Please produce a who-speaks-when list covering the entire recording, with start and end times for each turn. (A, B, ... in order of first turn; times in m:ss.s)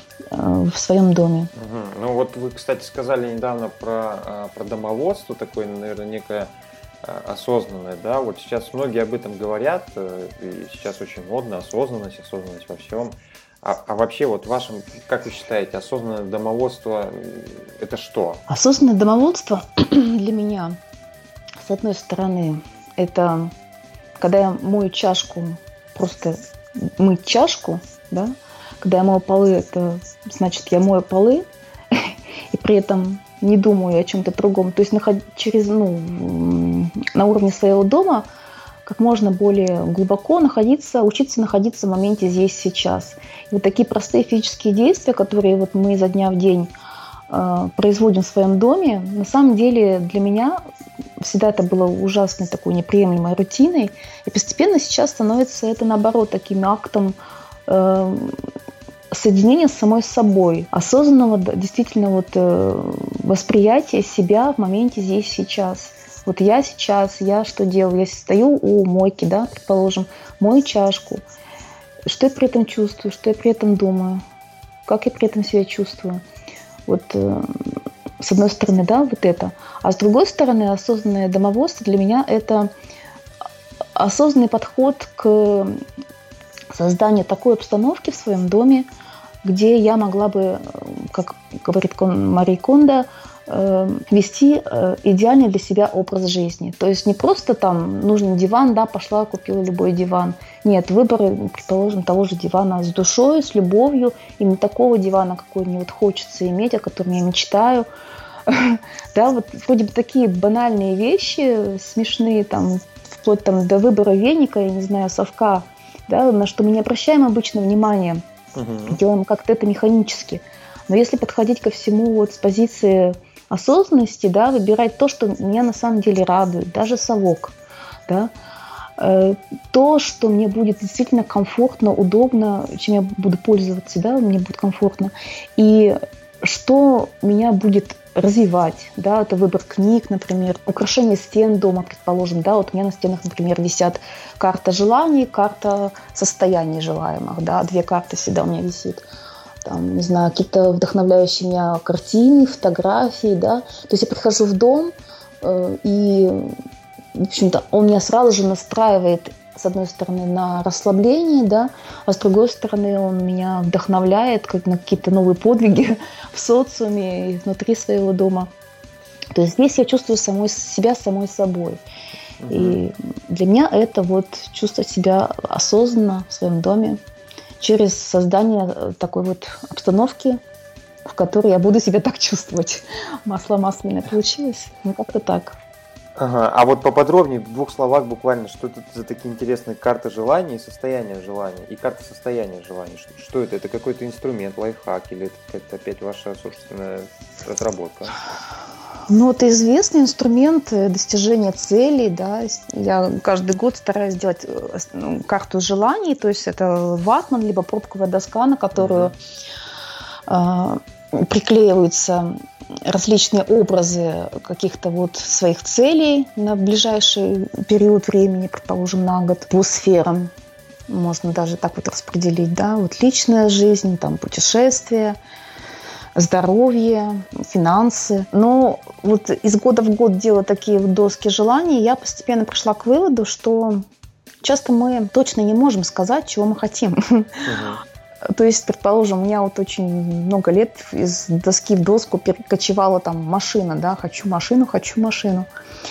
0:00.3-0:01.5 A
0:01.6-0:06.5 B
0:07.0-0:18.4 B
0:18.5-0:20.8 A
0:21.6-0:23.5 A
0:24.2-0:38.3 A
0:38.8-0:46.7 A
0:47.3-0:50.6 A
0:51.2-0:57.2 A
0:57.7-0:58.4 A
0:59.1-1:11.2 A
1:12.1-1:14.2 A
1:14.9-1:16.2 A
1:16.9-1:17.6 A
1:18.2-1:22.7 A
1:24.0-1:25.8 A
1:26.7-1:28.9 A
1:29.4-1:47.9 A
1:48.5-1:58.2 A
1:58.6-1:59.0 B
1:58.9-2:07.6 A
2:09.0-2:29.0 A
2:29.6-2:36.5 A
2:37.2-2:48.5 A
2:49.3-2:51.8 A
2:52.4-2:52.8 B
2:52.5-2:57.0 A
2:57.6-3:00.4 A
3:01.0-3:05.6 A
3:06.2-3:18.2 B
3:19.1-3:29.2 A
3:28.8-3:29.1 B
3:30.3-3:40.3 A
3:40.9-3:45.2 A
3:46.2-3:53.8 A
3:54.4-3:57.5 A
3:57.5-3:57.8 B
3:58.3-4:05.5 A